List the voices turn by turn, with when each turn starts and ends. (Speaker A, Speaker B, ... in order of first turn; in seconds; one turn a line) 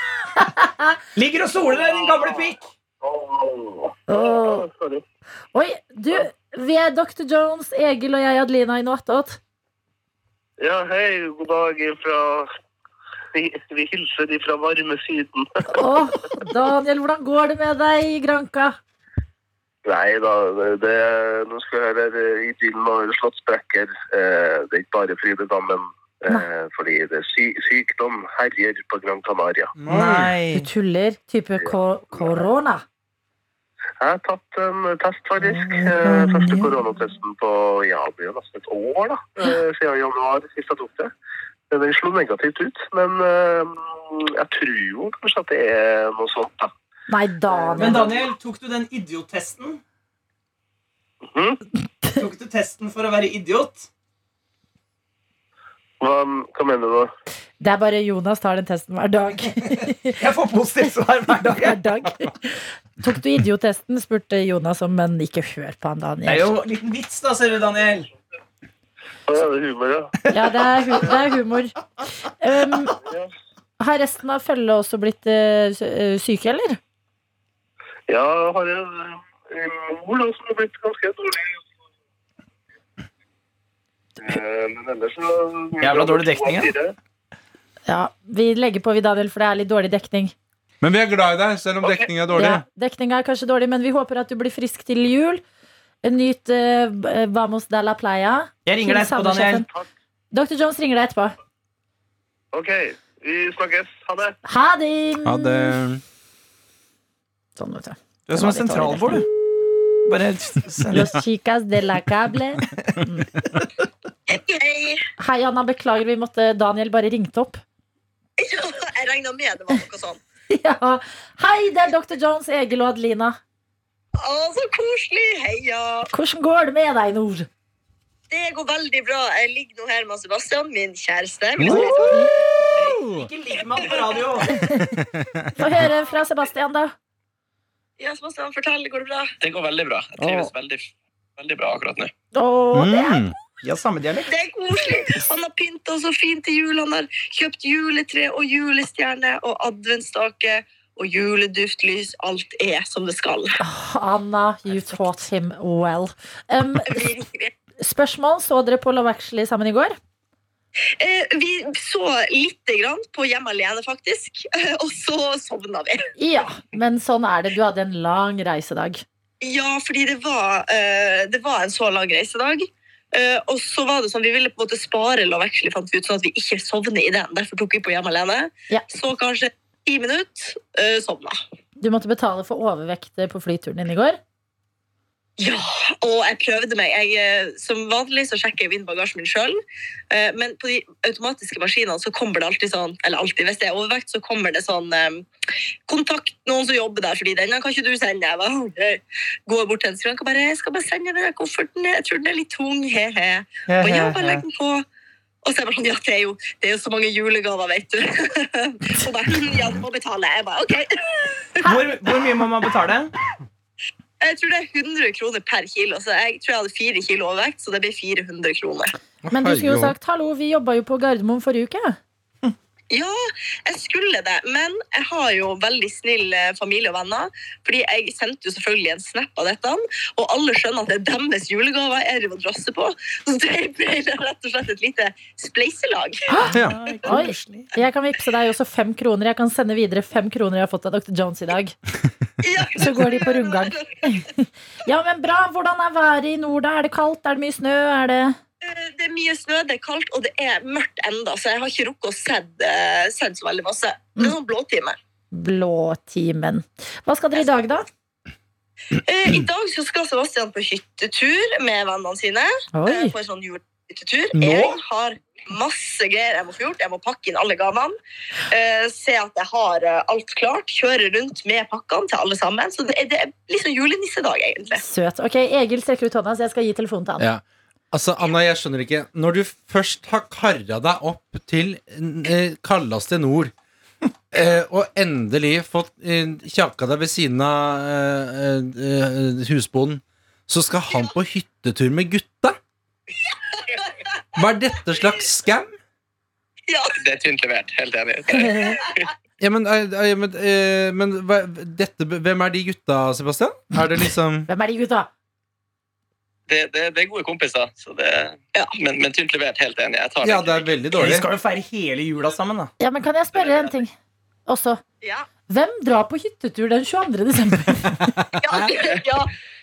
Speaker A: 0.3-1.0
Speaker B: 1.2-2.7
Speaker C: 3.0-5.0
Speaker A: 4.1-4.7
Speaker A: 5.5-9.4
Speaker C: 10.6-12.5
Speaker C: 13.3-15.8
Speaker A: 15.7-18.8
Speaker C: 19.9-29.7
Speaker D: 29.8-30.3
Speaker B: 29.9-30.7
Speaker A: 30.5-32.8
Speaker C: 31.6-32.4
Speaker C: 34.0-41.1
Speaker B: 35.7-36.8
Speaker C: 41.7-46.7
Speaker A: 47.1-48.0
Speaker C: 47.5-48.2
Speaker B: 47.8-49.8
Speaker C: 51.3-51.6
Speaker B: 52.1-53.9
Speaker C: 56.0-57.1
Speaker A: 57.6-60.2
Speaker B: 60.2-61.9
Speaker A: 61.6-66.5
Speaker B: 66.3-68.1
Speaker C: 69.3-70.2
Speaker B: 70.2-70.6
Speaker A: 70.3-73.0
Speaker C: 73.0-73.3
Speaker A: 73.8-76.8
Speaker C: 78.1-81.6
Speaker C: 84.2-87.0
Speaker B: 85.8-86.7
Speaker A: 87.9-90.3
Speaker D: 90.8-92.6
Speaker A: 92.3-95.4
Speaker A: 96.0-99.7
Speaker B: 98.7-99.6
Speaker A: 100.3-101.3
Speaker C: 102.5-104.4
Speaker A: 104.5-105.8
Speaker D: 105.2-106.0
Speaker A: 107.6-109.2
Speaker B: 108.3-109.2
Speaker B: 110.0-111.0
Speaker A: 110.9-113.3
Speaker E: 114.3-115.0
Speaker A: 115.2-117.6
Speaker E: 118.4-120.2
Speaker A: 120.5-123.4
Speaker E: 124.2-126.1
Speaker A: 126.1-127.5
Speaker E: 128.3-132.2
Speaker A: 131.6-132.3
Speaker D: 132.8-133.3
Speaker B: 132.9-134.6
Speaker E: 133.8-134.3
Speaker A: 134.5-134.9
Speaker D: 135.0-135.8
Speaker A: 135.6-136.9
Speaker E: 138.0-139.3
Speaker F: 139.4-142.1
Speaker A: 140.2-140.5
Speaker A: 142.3-143.2
Speaker D: 142.7-143.3
Speaker B: 143.6-144.3
Speaker E: 144.3-153.6
Speaker A: 153.6-157.1
Speaker E: 156.9-157.5
Speaker A: 157.8-160.0
Speaker E: 161.0-166.1
Speaker A: 166.2-169.0
Speaker E: 169.4-181.4
Speaker A: 181.8-184.2
Speaker E: 185.4-189.6
Speaker E: 190.1-195.3
Speaker E: 195.9-204.9
Speaker B: 203.7-204.4
Speaker E: 205.4-211.7
Speaker B: 211.6-213.1
Speaker E: 214.2-218.9
Speaker D: 219.2-219.9
Speaker A: 219.3-222.0
Speaker E: 222.9-236.2
Speaker A: 236.3-241.8
Speaker B: 236.4-237.7
Speaker D: 236.5-236.8
Speaker E: 242.4-244.0
Speaker A: 242.8-248.4
Speaker E: 248.6-255.0
Speaker A: 255.3-257.9
Speaker E: 259.0-268.0
Speaker A: 262.7-263.1
Speaker D: 264.3-264.8
Speaker E: 268.5-274.8
Speaker A: 274.7-277.3
Speaker D: 277.2-283.5
Speaker D: 284.3-292.6
Speaker D: 294.3-295.8
Speaker E: 296.7-297.0
Speaker F: 297.0-299.0
Speaker E: 298.3-298.9
Speaker D: 299.4-304.5
Speaker A: 304.5-305.1
Speaker F: 306.5-310.7
Speaker D: 310.2-311.3
Speaker B: 310.9-312.7
Speaker A: 312.8-313.9
Speaker F: 313.4-313.8
Speaker A: 314.5-314.8
Speaker E: 315.0-315.3
Speaker A: 315.5-318.1
Speaker E: 318.4-319.3
Speaker F: 318.6-319.0